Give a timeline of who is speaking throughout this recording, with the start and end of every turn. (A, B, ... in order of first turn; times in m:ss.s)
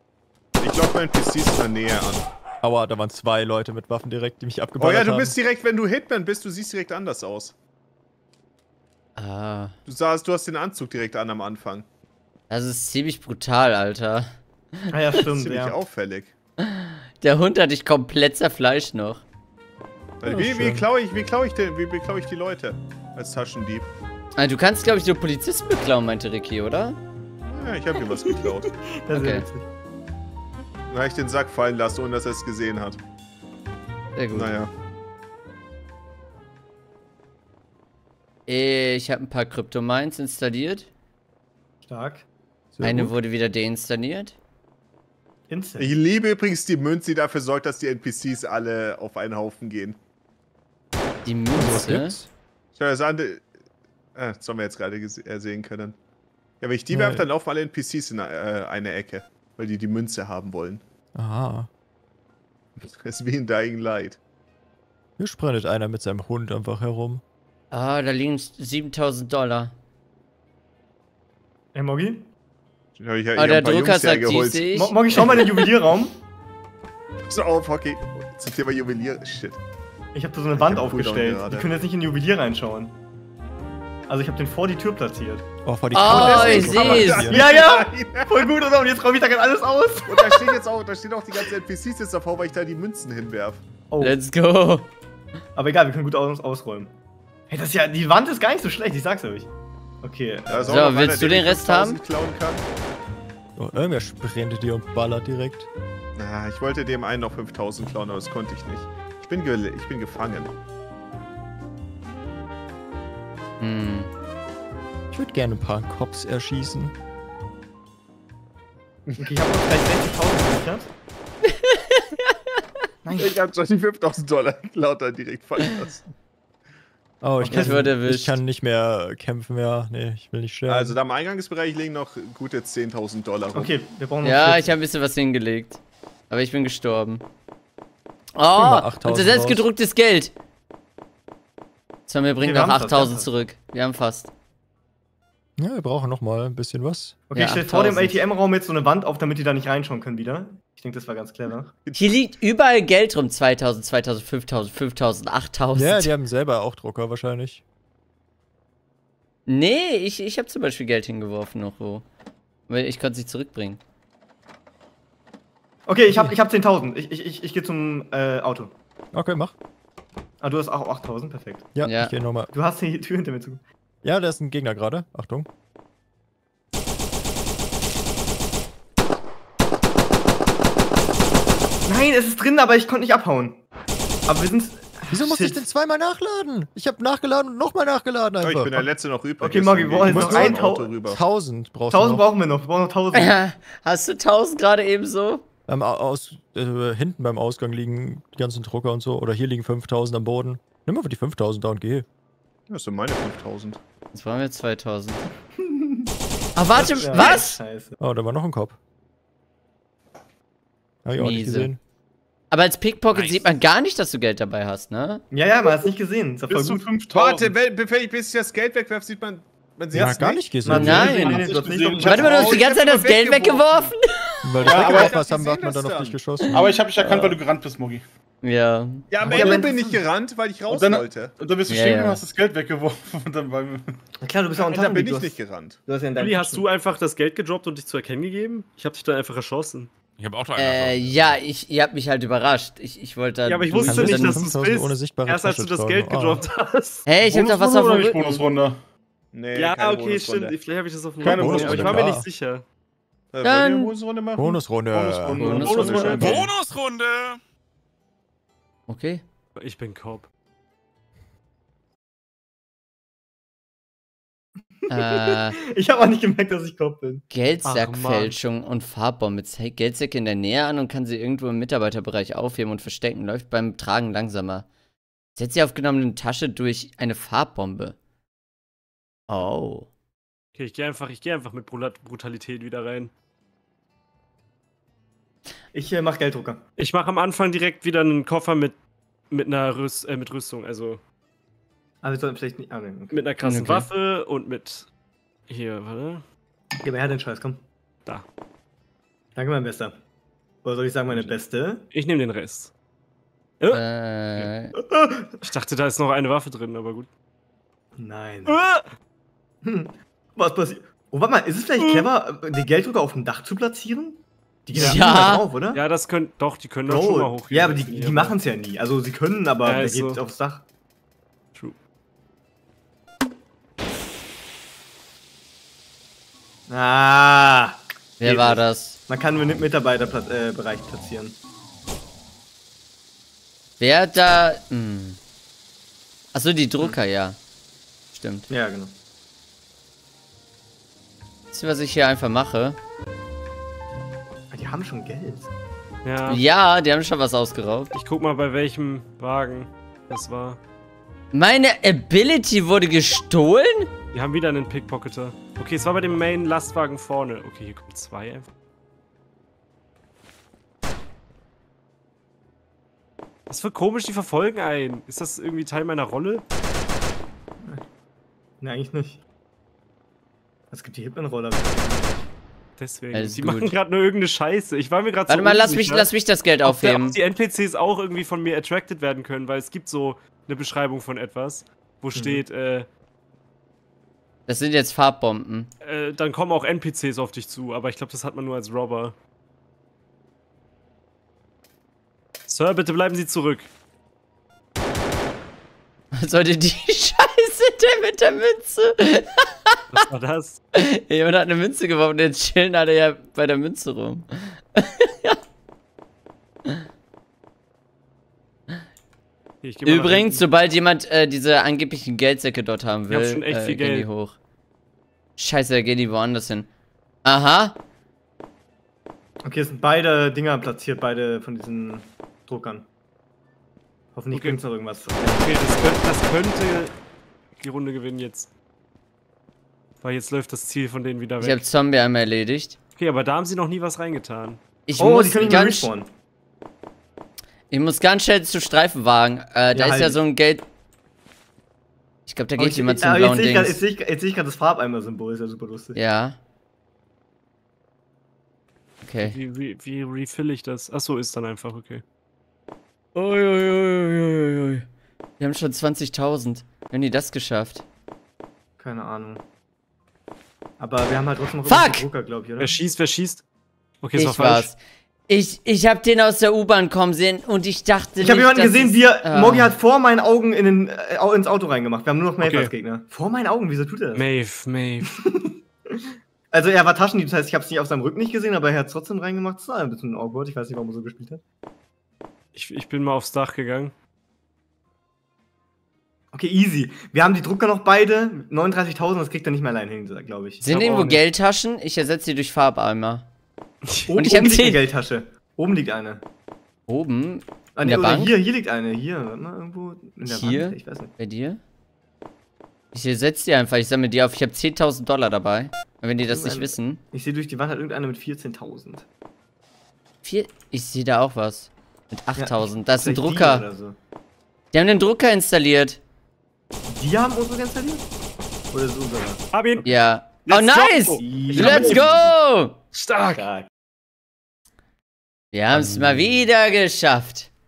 0:00.6-0:02.3 A
0:02.6-0:05.4 B
0:04.8-0:07.5 A
0:09.2-0:09.7 C
0:09.9-0:11.9 A
0:12.5-0:14.3 C
0:14.9-0:15.8 D
0:15.2-0:16.3 A
0:16.6-0:19.2 C
0:20.2-0:23.9 A
0:20.3-0:20.8 D
0:24.4-0:27.0 C
0:27.5-0:28.7 A
0:28.1-0:29.7 D
0:29.1-0:29.5 C
0:30.9-0:33.0 A
0:34.2-0:34.6 C
0:34.3-0:34.7 A
0:38.5-0:40.9 C
0:41.8-0:42.3 D
0:42.7-0:43.2 B
0:42.8-0:44.4 C
0:45.5-0:46.0 D
0:45.8-0:50.0 A
0:51.2-0:52.2 C
0:51.6-0:52.3 B
0:52.8-0:53.5 A
0:54.2-0:56.0 A
0:56.6-1:00.8 A
0:56.9-0:57.3 B
1:01.2-1:01.7 B
1:02.8-1:04.2 A
1:05.2-1:07.2 B
1:07.7-1:09.7 C
1:11.7-1:12.3 D
1:13.0-1:15.4 A
1:13.4-1:15.0 C
1:14.7-1:16.2 D
1:17.3-1:19.6 A
1:20.1-1:23.0 D
1:20.6-1:21.7 A
1:24.1-1:25.4 D
1:25.6-1:27.4 B
1:25.9-1:27.3 C
1:26.1-1:28.5 A
1:27.2-1:30.6 D
1:30.1-1:33.6 A
1:33.9-1:34.2 D
1:34.0-1:34.9 C
1:35.6-1:36.9 D
1:37.5-1:39.5 D
1:40.0-1:40.9 D
1:40.5-1:42.7 A
1:40.7-1:42.0 C
1:43.6-1:45.7 B
1:46.2-1:50.5 A
1:53.6-1:54.1 C
1:55.1-1:57.0 B
1:59.2-2:00.9 D
2:01.5-2:02.6 C
2:03.0-2:03.4 D
2:03.2-2:06.0 A
2:07.2-2:11.0 B
2:07.4-2:07.9 D
2:07.5-2:08.4 C
2:10.7-2:13.7 A
2:13.6-2:14.7 D
2:14.2-2:15.8 C
2:16.3-2:17.2 C
2:18.4-2:20.3 C
2:18.5-2:19.7 B
2:22.1-2:24.3 C
2:22.4-2:23.3 D
2:25.6-2:27.2 B
2:27.3-2:31.7 D
2:27.4-2:28.2 C
2:31.9-2:32.1 A
2:32.0-2:36.1 C
2:35.7-2:37.6 B
2:39.5-2:42.0 C
2:42.7-2:43.8 C
2:45.9-2:48.8 D
2:49.1-2:49.5 B
2:50.4-2:51.7 D
2:51.8-2:52.5 B
2:51.8-2:52.1 C
2:52.5-2:53.6 D
2:54.0-2:55.5 B
3:01.9-3:03.6 D
3:04.3-3:05.6 D
3:05.1-3:08.9 B
3:08.4-3:11.2 A
3:09.4-3:11.0 D
3:10.1-3:12.2 B
3:11.9-3:13.3 D
3:13.1-3:15.4 C
3:15.7-3:22.1 B
3:22.7-3:23.8 A
3:24.1-3:25.3 C
3:25.6-3:26.1 D
3:26.6-3:27.6 C
3:26.7-3:28.0 D
3:28.0-3:28.8 B
3:31.0-3:31.8 B
3:31.1-3:31.7 C
3:32.5-3:35.2 C
3:33.1-3:33.5 E
3:35.3-3:36.9 D
3:36.5-3:37.6 F
3:37.1-3:40.7 A
3:39.9-3:42.6 D
3:39.9-3:41.3 B
3:40.7-3:41.5 C
3:41.0-3:42.5 F
3:42.0-3:43.9 A
3:42.0-3:44.5 C
3:44.4-3:46.7 B
3:44.6-3:46.2 A
3:44.6-3:45.2 F
3:46.4-3:47.4 C
3:46.5-3:48.0 F
3:48.4-3:49.1 C
3:49.1-3:51.4 A
3:49.2-3:50.0 D
3:50.7-3:54.0 F
3:51.7-3:52.2 C
3:54.2-3:56.6 D
3:54.6-3:55.8 A
3:56.2-3:59.9 G
4:00.2-4:01.4 E
4:00.6-4:04.5 C
4:03.5-4:07.1 G
4:03.8-4:06.4 B
4:07.1-4:08.4 C
4:07.2-4:08.8 F
4:09.3-4:10.6 A
4:09.6-4:12.6 G
4:11.2-4:12.1 F
4:11.2-4:12.3 B
4:13.3-4:16.5 A
4:13.4-4:14.0 C
4:14.4-4:16.0 B
4:15.4-4:16.3 C
4:15.4-4:16.4 G
4:16.2-4:17.4 E
4:18.9-4:19.2 C
4:19.6-4:20.3 G
4:24.9-4:25.6 C
4:25.0-4:27.2 D
4:27.3-4:34.7 C
4:27.6-4:28.4 G
4:35.4-4:38.0 C
4:39.3-4:39.9 C
4:40.6-4:43.1 G
4:45.7-4:46.6 D
4:46.8-4:48.8 G
4:49.3-4:51.0 G
4:52.0-4:53.2 D
4:53.1-4:54.9 G
4:53.4-4:53.9 C
4:55.5-4:56.2 G
4:56.8-4:57.6 D
4:59.4-5:00.0 D
5:00.6-5:01.9 D
5:01.9-5:02.7 G
5:03.7-5:04.7 C
5:04.8-5:05.4 D
5:05.5-5:07.1 G
5:08.0-5:08.6 D
5:08.5-5:08.9 G
5:09.6-5:15.8 D
5:11.8-5:12.1 G
5:14.7-5:18.4 G
5:14.8-5:15.5 C
5:16.9-5:20.6 D
5:19.6-5:20.2 G
5:26.7-5:31.4 D
5:28.2-5:29.0 C
5:33.8-5:35.2 C
5:36.3-5:37.4 C
5:38.1-5:38.5 C
5:38.5-5:38.9 D
5:41.5-5:42.8 C
5:44.5-5:45.5 D
5:46.0-5:46.4 G
5:46.3-5:47.9 C
5:47.9-5:50.6 G
5:51.3-5:53.9 C
5:54.1-5:58.5 G
6:03.5-6:06.4 G
6:08.6-6:09.2 D
6:10.7-6:12.3 D
6:12.8-6:16.1 G
6:13.1-6:13.8 C
6:15.3-6:17.2 C
6:16.6-6:22.9 G
6:22.1-6:22.4 D
6:24.5-6:25.7 C
6:25.8-6:29.2 G
6:32.5-6:33.7 G
6:36.1-6:39.8 C
6:39.9-6:40.6 G
6:40.8-6:45.4 C
6:49.6-6:50.4 G
6:49.8-6:54.4 C
6:53.1-6:54.1 G
6:55.4-6:56.7 C
6:57.2-6:57.8 C
6:59.4-7:02.9 D
7:04.2-7:06.0 D
7:04.3-7:04.6 G
7:05.2-7:07.0 G
7:07.6-7:08.5 G
7:10.0-7:11.6 G
7:11.4-7:12.8 C
7:13.0-7:14.6 G
7:14.9-7:15.9 C
7:15.0-7:16.1 D
7:17.7-7:20.6 C
7:19.7-7:20.2 D
7:22.3-7:23.8 C
7:22.6-7:26.0 D
7:26.0-7:26.4 C
7:29.0-7:29.4 C
7:29.2-7:32.0 G
7:33.2-7:34.8 C
7:35.4-7:37.8 C
7:38.8-7:39.4 D
7:40.8-7:42.8 D
7:41.7-7:42.0 C
7:42.6-7:43.4 G
7:44.0-7:44.7 G
7:44.2-7:44.8 C
7:45.3-7:49.7 C
7:48.2-7:54.3 D
7:52.4-7:52.7 G
7:54.2-7:55.1 G
7:55.1-8:01.4 D
8:02.5-8:03.9 G
8:06.3-8:11.1 D
8:10.6-8:13.3 C
8:13.9-8:14.2 G
8:14.1-8:16.2 D
8:14.2-8:14.8 C
8:16.9-8:18.4 C
8:17.8-8:21.1 D
8:20.3-8:21.6 C
8:22.9-8:27.0 C
8:26.3-8:29.0 D
8:30.2-8:33.7 C
8:32.4-8:34.0 D
8:34.7-8:36.0 C
8:36.9-8:38.1 D
8:38.7-8:39.4 D
8:39.5-8:42.3 G
8:39.8-8:42.8 C
8:41.2-8:42.2 D
8:42.9-8:43.5 G
8:43.3-8:43.7 D
8:45.5-8:47.5 C
8:45.8-8:46.3 G